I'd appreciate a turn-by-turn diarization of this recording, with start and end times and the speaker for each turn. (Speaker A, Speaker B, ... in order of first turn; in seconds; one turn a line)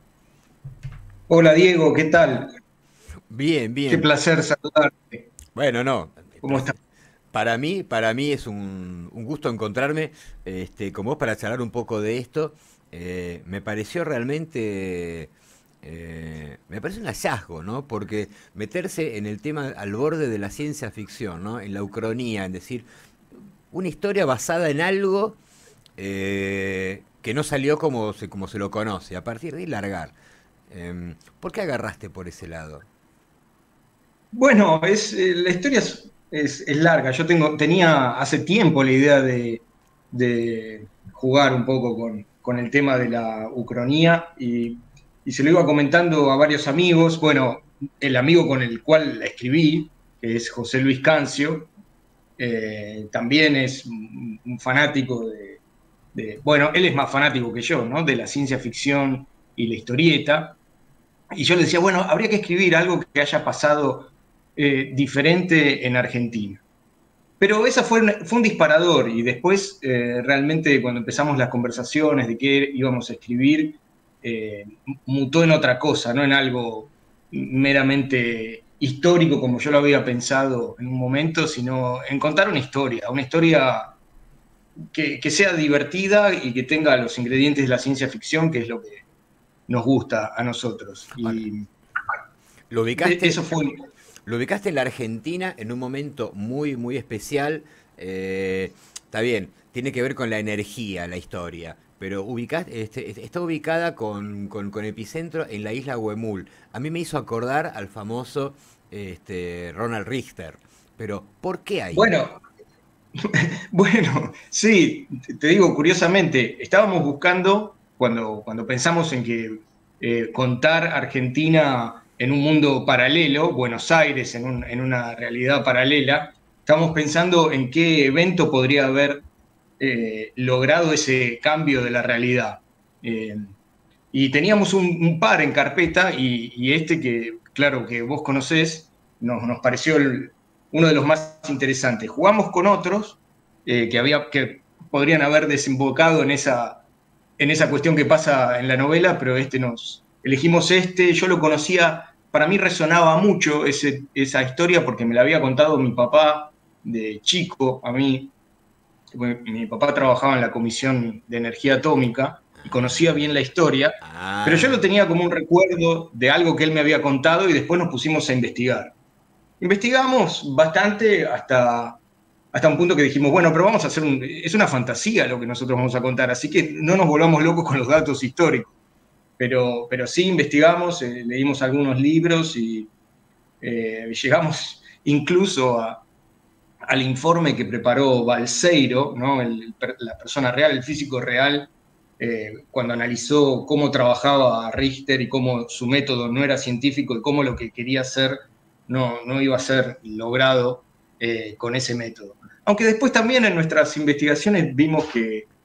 Speaker A: 1.3-2.5
Speaker B: 3.3-4.1
Speaker A: 3.9-5.3
Speaker B: 5.5-6.8
Speaker A: 6.4-6.8
Speaker B: 7.3-22.9
Speaker B: 23.7-25.4
Speaker B: 26.0-30.1
Speaker B: 30.7-32.9
Speaker A: 34.3-51.7
Speaker A: 52.4-55.6
Speaker A: 56.1-60.6
Speaker A: 61.3-66.6
Speaker A: 67.4-84.0
Speaker A: 84.9-89.0
Speaker A: 89.7-91.7
Speaker B: 92.7-93.4
Speaker A: 93.0-93.8
Speaker B: 94.3-112.1
Speaker A: 111.9-112.4
Speaker A: 113.2-129.2
Speaker A: 129.8-133.5
Speaker A: 134.1-146.8
Speaker A: 147.4-158.3
Speaker A: 159.1-168.9
Speaker B: 162.6-163.1
Speaker B: 164.0-164.8
Speaker A: 169.6-172.0
Speaker A: 172.5-178.7
Speaker A: 179.4-182.9
Speaker A: 183.6-186.0
Speaker A: 186.9-205.5